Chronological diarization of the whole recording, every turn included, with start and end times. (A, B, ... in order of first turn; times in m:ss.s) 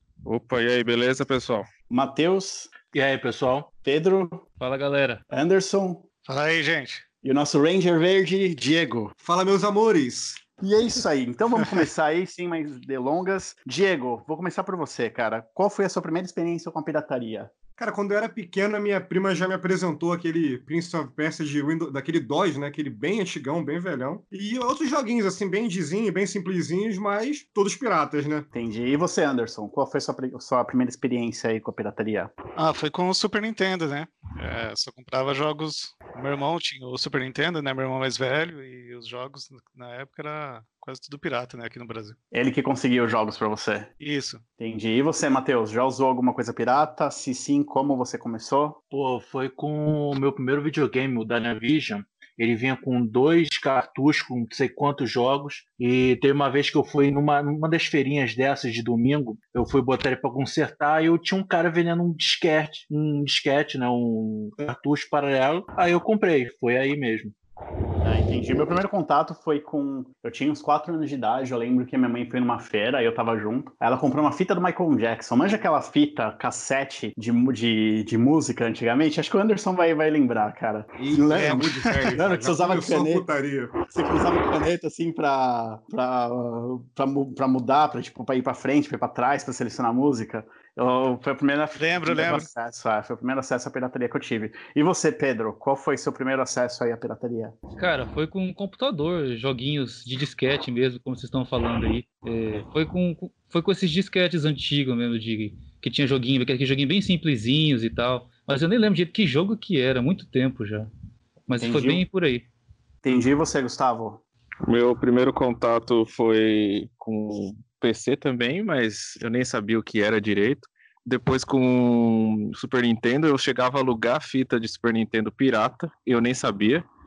0:00.2-0:01.7 A
0:01.9-0:02.7 B
0:02.9-0:03.7 C
0:03.8-0:04.4 B
0:04.6-0:05.2 D
0:05.3-0:06.0 B
0:06.2-0:07.0 E
0:07.2-0:09.1 B
0:09.2-0:10.4 F
0:10.6-0:17.5 B
0:17.8-0:28.5 F
0:28.5-0:32.3 B
0:32.6-0:42.2 E
0:42.3-0:43.9 B
0:44.0-0:44.4 E
0:44.6-0:48.8 B
0:48.9-1:07.3 C
1:08.0-1:23.2 B
1:21.0-1:23.7 F
1:21.4-1:21.8 E
1:23.8-1:37.6 B
1:31.8-1:32.5 E
1:37.8-1:50.9 D
1:51.5-1:52.5 D
1:51.6-1:52.0 B
1:53.0-1:54.2 B
1:54.6-2:06.8 A